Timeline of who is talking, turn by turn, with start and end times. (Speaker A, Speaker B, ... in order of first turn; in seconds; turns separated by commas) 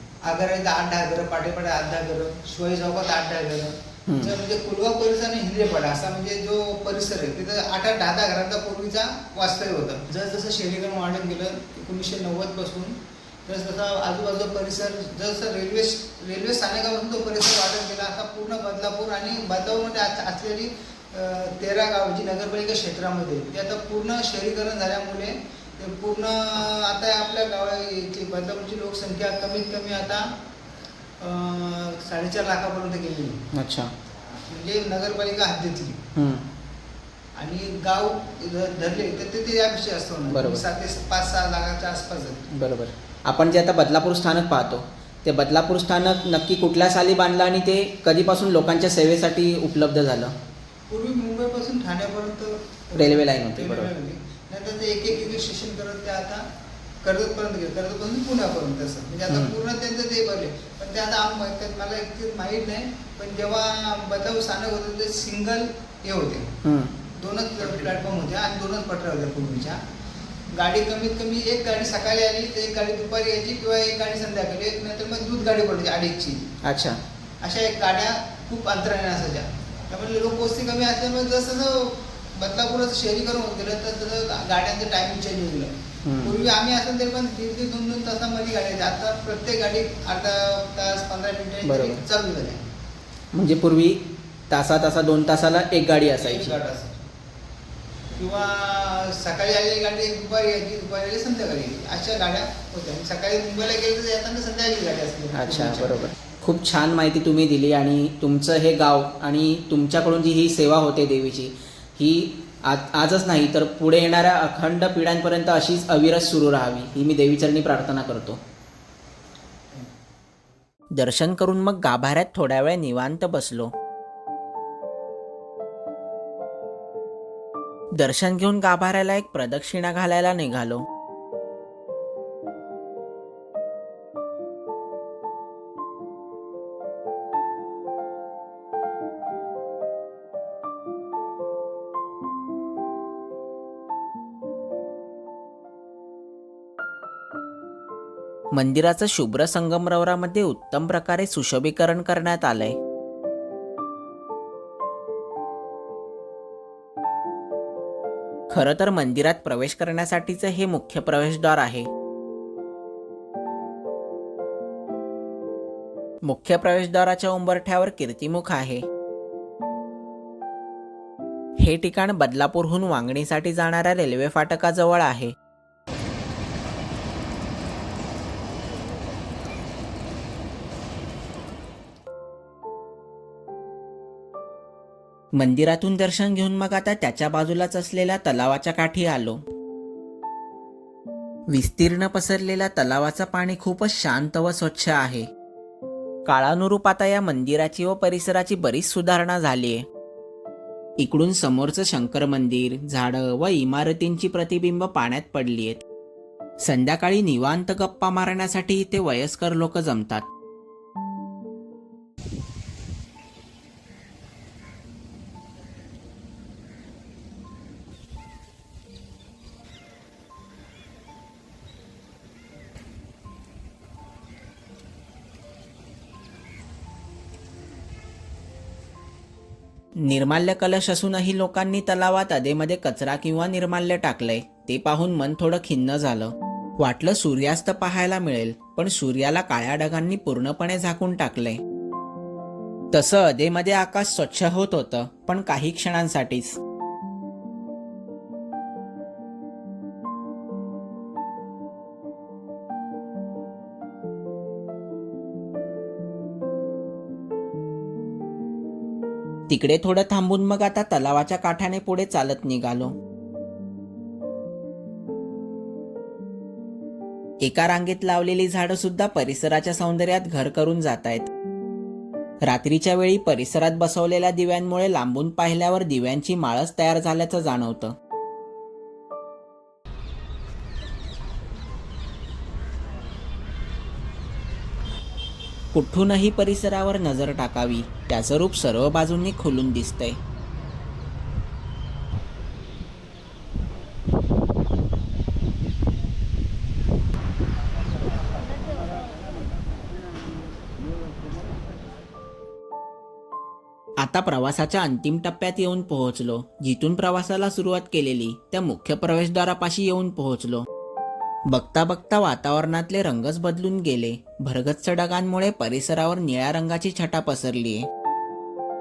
Speaker A: 0.2-30.4, Speaker B: 4.1-4.3, Speaker A: 31.2-33.5, Speaker B: 33.5-33.9, Speaker A: 34.5-36.1, Speaker B: 36.2-36.5, Speaker A: 37.4-42.5, Speaker B: 40.3-40.6, Speaker B: 42.5-50.4, Speaker A: 50.9-56.5, Speaker B: 53.0-53.9, Speaker A: 57.0-66.6, Speaker B: 59.3-59.5, Speaker B: 66.6-67.0, Speaker A: 67.1-69.8, Speaker B: 67.6-67.9, Speaker A: 70.5-76.5, Speaker B: 76.6-77.0, Speaker A: 77.4-92.7, Speaker B: 86.0-86.4, Speaker B: 91.6-92.0, Speaker B: 93.3-96.5, Speaker A: 96.1-97.1, Speaker A: 98.1-106.1, Speaker B: 105.3-118.4, Speaker B: 120.9-123.7, Speaker B: 127.9-130.9, Speaker B: 148.5-152.8, Speaker B: 158.5-161.9, Speaker B: 166.2-168.9, Speaker B: 171.6-175.3, Speaker B: 185.3-189.4, Speaker B: 191.5-195.3, Speaker B: 196.3-199.9, Speaker B: 201.0-205.8, Speaker B: 206.6-210.3, Speaker B: 230.0-241.6, Speaker B: 242.9-246.6, Speaker B: 259.5-263.0, Speaker B: 267.4-271.3, Speaker B: 272.4-278.0, Speaker B: 285.7-290.2, Speaker B: 304.0-310.7, Speaker B: 311.5-317.9